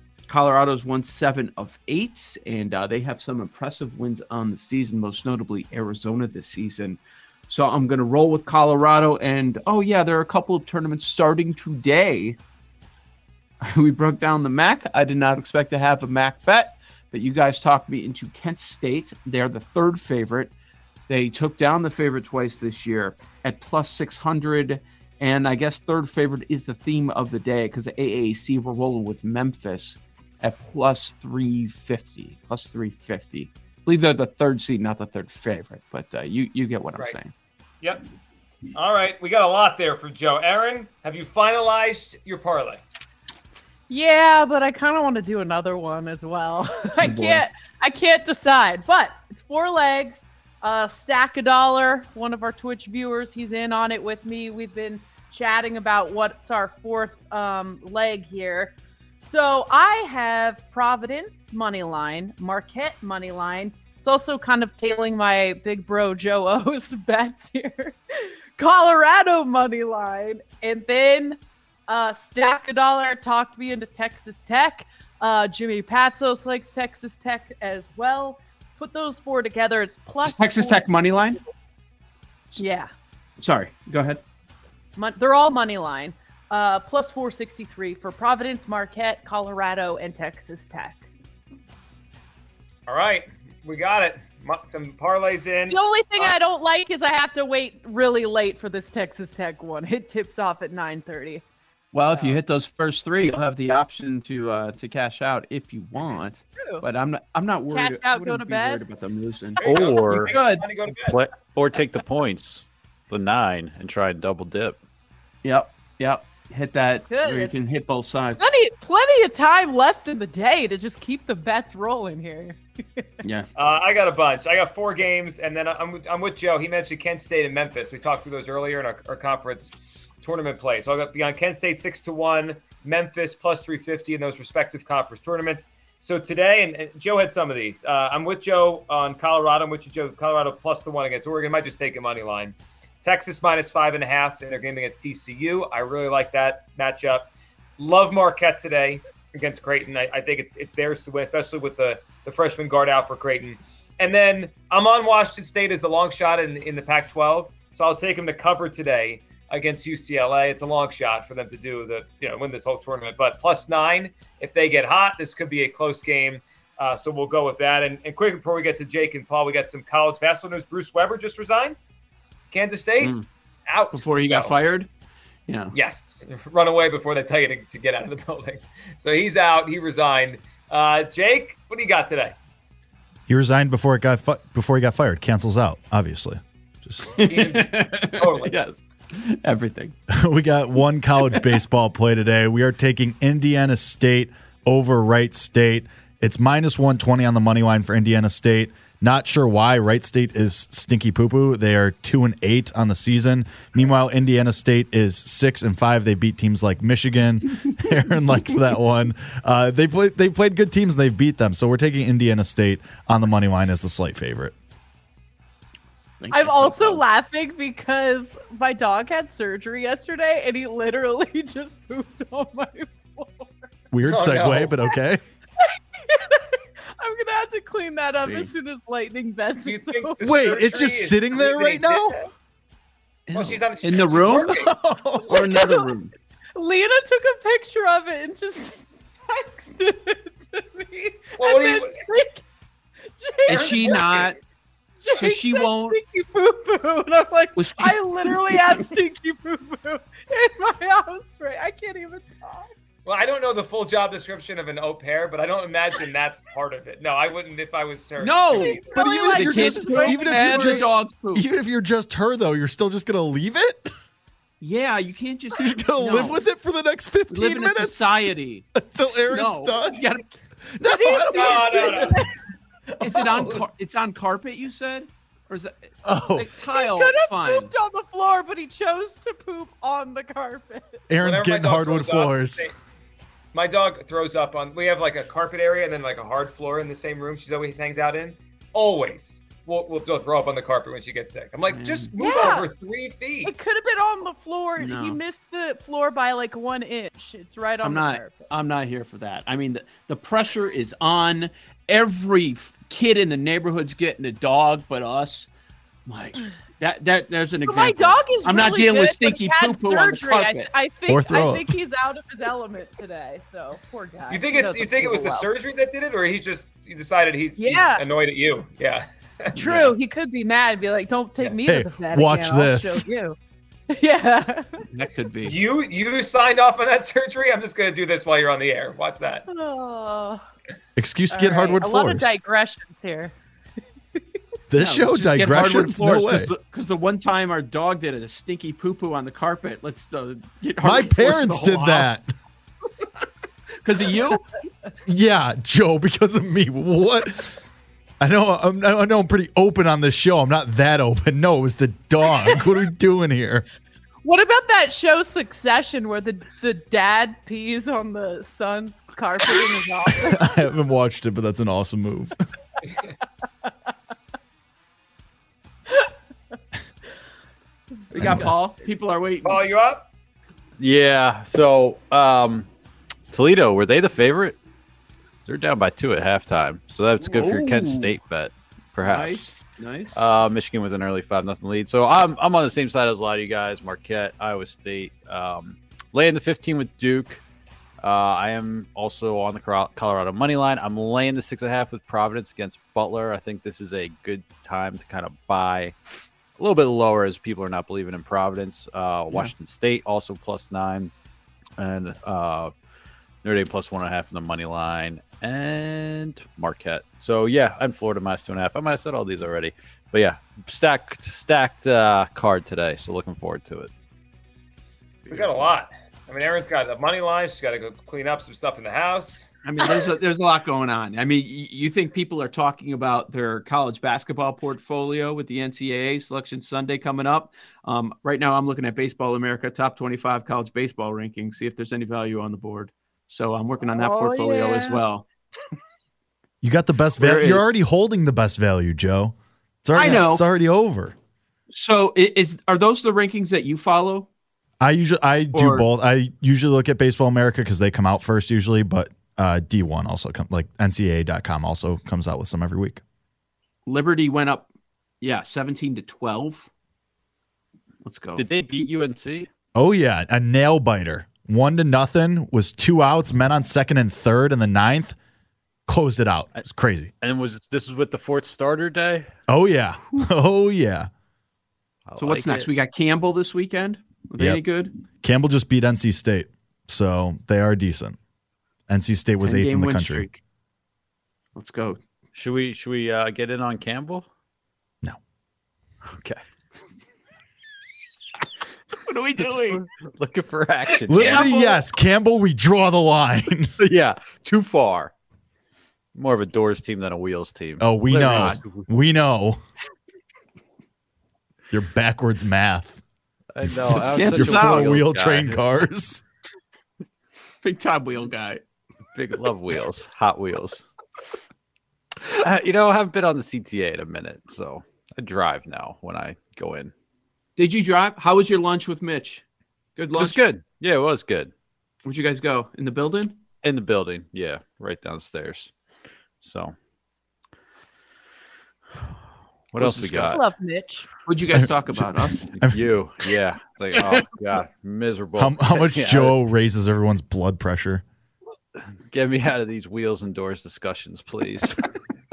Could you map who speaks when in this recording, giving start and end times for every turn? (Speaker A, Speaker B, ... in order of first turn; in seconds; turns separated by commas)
Speaker A: 0.3-12.4, Speaker A: 13.6-20.5, Speaker A: 21.1-37.3, Speaker B: 38.8-42.8, Speaker C: 43.9-68.0, Speaker A: 47.0-47.4, Speaker C: 68.6-81.0, Speaker A: 80.2-81.4, Speaker C: 82.5-82.9, Speaker A: 83.4-84.2, Speaker C: 85.0-91.1, Speaker B: 92.9-96.3, Speaker C: 95.7-101.4, Speaker A: 101.9-109.7, Speaker C: 102.1-102.4, Speaker C: 106.6-106.8, Speaker C: 107.7-108.8, Speaker B: 109.6-111.2, Speaker D: 109.6-114.8, Speaker A: 110.2-110.7, Speaker A: 115.4-118.5, Speaker C: 117.1-117.5, Speaker C: 118.4-123.0, Speaker A: 123.2-123.5, Speaker B: 123.6-171.8, Speaker B: 172.5-173.2, Speaker A: 173.0-173.3, Speaker B: 173.7-174.6, Speaker A: 173.9-174.9, Speaker A: 175.5-175.8, Speaker B: 175.7-182.4, Speaker E: 183.3-187.2, Speaker A: 187.1-189.9, Speaker B: 187.3-188.6, Speaker E: 190.1-214.6, Speaker A: 215.9-217.0, Speaker C: 216.3-223.7, Speaker E: 223.9-225.2, Speaker B: 224.1-224.8, Speaker C: 225.6-230.2, Speaker A: 228.2-228.5, Speaker B: 229.7-232.3, Speaker E: 230.2-232.2, Speaker A: 233.3-234.6, Speaker B: 233.3-234.7, Speaker E: 234.6-235.5, Speaker A: 235.2-236.1, Speaker C: 235.6-235.8, Speaker C: 236.6-242.4, Speaker B: 241.4-242.0, Speaker C: 243.2-243.8, Speaker A: 243.5-244.4, Speaker B: 243.5-244.3, Speaker C: 245.0-252.7, Speaker A: 245.2-246.0, Speaker A: 247.6-248.9, Speaker B: 253.1-259.1, Speaker A: 258.2-261.5, Speaker C: 258.8-259.3, Speaker E: 258.9-263.9, Speaker C: 259.9-260.8, Speaker A: 264.6-266.4, Speaker E: 265.6-270.0, Speaker A: 267.3-268.6, Speaker A: 269.3-270.4, Speaker E: 270.7-272.3, Speaker C: 270.9-271.9, Speaker B: 271.2-272.2, Speaker E: 272.9-273.6, Speaker A: 273.0-277.7, Speaker E: 276.0-276.5, Speaker C: 276.8-281.0, Speaker E: 281.1-282.7, Speaker B: 281.2-282.7, Speaker B: 283.5-293.6, Speaker A: 291.7-292.1, Speaker C: 292.2-292.7, Speaker C: 293.4-298.5, Speaker A: 294.8-295.2, Speaker A: 297.8-305.5, Speaker A: 306.1-310.7, Speaker C: 307.6-315.5, Speaker E: 311.1-311.8, Speaker B: 314.3-319.7, Speaker C: 317.6-318.0, Speaker A: 319.6-320.0, Speaker C: 319.6-323.4, Speaker E: 321.6-323.1, Speaker C: 323.9-324.8, Speaker A: 324.8-325.6, Speaker B: 325.4-329.4, Speaker C: 329.5-330.4, Speaker E: 331.0-332.3, Speaker C: 331.3-333.4, Speaker E: 334.7-336.5, Speaker A: 334.8-342.2, Speaker E: 340.8-342.3, Speaker A: 343.8-344.4, Speaker E: 345.1-347.5, Speaker E: 348.2-353.6, Speaker C: 354.2-360.5, Speaker E: 360.1-362.3, Speaker A: 368.1-369.6, Speaker E: 368.2-368.5, Speaker B: 369.4-370.1, Speaker D: 370.8-372.7, Speaker D: 373.3-374.6, Speaker D: 375.5-379.5, Speaker A: 377.2-378.1, Speaker A: 379.0-380.2, Speaker D: 380.1-387.4, Speaker D: 388.0-395.9, Speaker D: 396.6-401.1, Speaker D: 401.8-402.7, Speaker D: 403.4-413.9, Speaker B: 415.3-419.5, Speaker A: 415.3-415.7, Speaker A: 419.6-435.3, Speaker C: 434.0-435.0, Speaker E: 436.6-441.1, Speaker A: 437.2-437.7, Speaker A: 439.9-440.4, Speaker A: 441.7-444.3, Speaker E: 444.8-453.0, Speaker A: 445.5-445.9, Speaker A: 453.9-454.7, Speaker A: 455.2-456.7, Speaker A: 458.0-458.4, Speaker D: 458.4-459.5, Speaker E: 459.8-465.1, Speaker E: 465.9-467.1, Speaker D: 467.2-469.3, Speaker E: 469.5-471.1, Speaker D: 472.1-472.7, Speaker A: 472.2-474.9, Speaker E: 475.2-478.2, Speaker E: 478.9-480.3, Speaker A: 479.4-480.4, Speaker A: 481.6-482.0, Speaker D: 482.3-484.3, Speaker D: 486.1-486.4, Speaker A: 489.0-489.8, Speaker D: 489.4-491.5, Speaker E: 491.1-493.7, Speaker A: 491.1-491.8, Speaker D: 493.8-495.1, Speaker D: 496.1-498.8, Speaker E: 497.8-499.6, Speaker A: 498.3-498.6, Speaker E: 501.7-503.0, Speaker D: 503.6-505.6, Speaker E: 503.6-506.2, Speaker A: 504.1-504.9, Speaker A: 507.6-508.6, Speaker D: 509.1-510.8, Speaker D: 512.4-516.9, Speaker A: 517.6-519.4, Speaker A: 520.0-520.4, Speaker D: 520.1-521.5, Speaker A: 522.0-523.4, Speaker D: 523.6-525.7, Speaker D: 526.4-526.8, Speaker D: 529.7-530.4, Speaker A: 529.8-530.4, Speaker C: 530.3-531.1, Speaker A: 531.3-532.4, Speaker E: 531.5-532.8, Speaker D: 532.5-536.4, Speaker A: 533.9-534.2, Speaker E: 535.4-538.0, Speaker D: 538.8-541.8